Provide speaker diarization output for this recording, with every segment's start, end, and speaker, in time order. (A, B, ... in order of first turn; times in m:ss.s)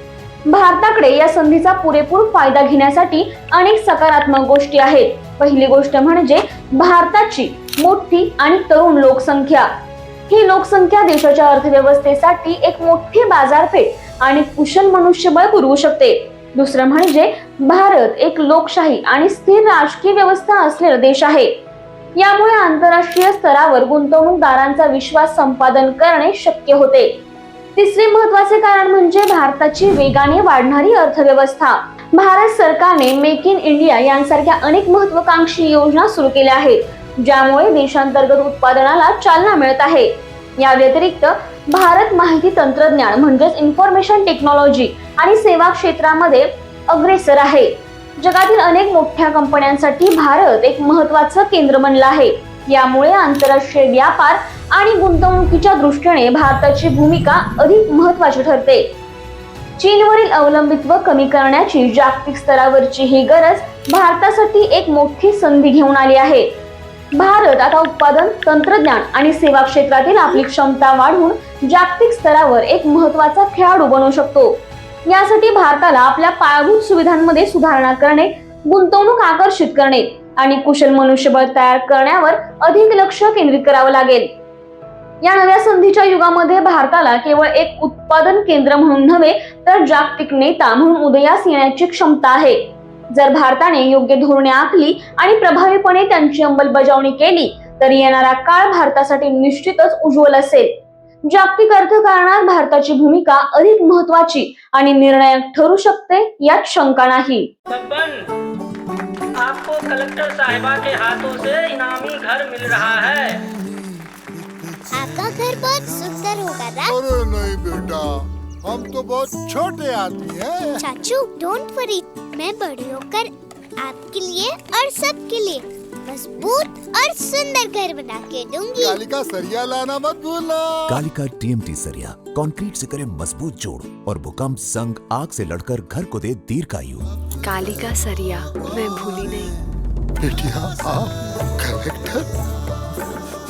0:00.5-0:09.7 A
0:10.3-0:21.5 A
0:22.2-0:27.2 A
0:27.8-0:58.9 A
0:59.8-1:06.5 A
1:07.1-1:24.3 A
1:25.2-1:40.7 A
1:41.3-1:47.5 A
1:47.7-1:48.2 B
1:49.3-1:53.4 B
1:54.9-1:57.0 C
1:56.8-2:00.9 D
2:00.8-2:09.0 C
2:08.7-2:11.0 D
2:10.9-2:17.1 E
2:17.4-2:19.5 F
2:20.2-2:22.3 D